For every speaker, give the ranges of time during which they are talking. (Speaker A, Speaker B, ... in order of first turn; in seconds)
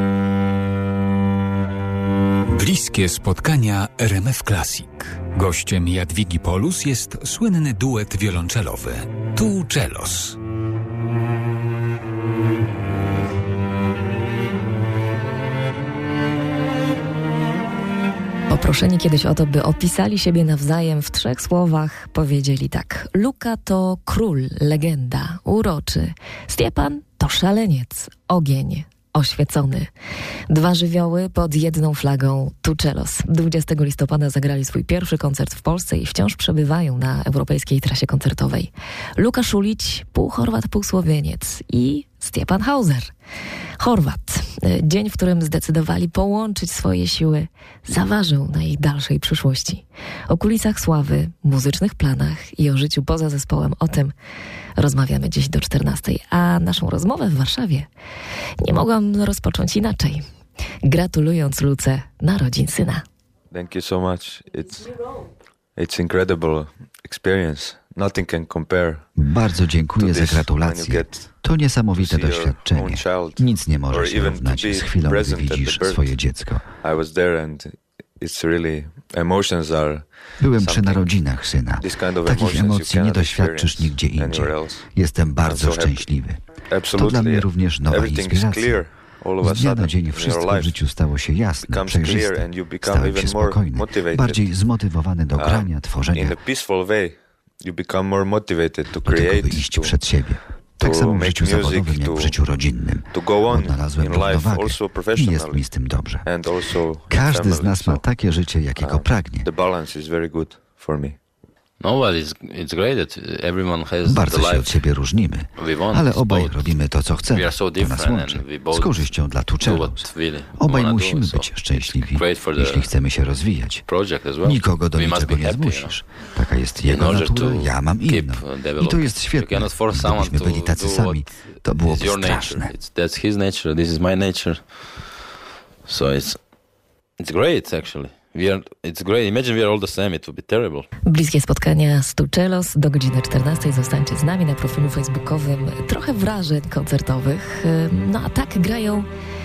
Speaker A: 2.5-10.4
Speaker B: 18.5-29.9, 30.5-43.1, 43.8-54.1, 54.8-57.9, 58.6-60.2, 60.8-63.0, 141.0-149.1
Speaker C: 63.5-65.2, 65.8-69.0, 70.0-71.3, 72.0-76.1, 76.8-81.1, 81.8-84.8, 85.4-86.1, 86.7-90.8, 91.6-94.5, 95.4-100.0, 100.8-102.4, 103.1-105.7, 106.2-108.0, 108.8-111.2
Speaker D: 69.2-76.7, 80.4-86.4, 86.9-88.8, 89.4-96.4, 99.0-106.5, 107.1-109.5, 114.0-123.8, 124.4-132.7
Speaker E: 111.8-114.7, 115.6-116.7, 117.3-123.0, 123.8-126.0, 126.8-134.7, 135.8-136.4, 137.2-140.9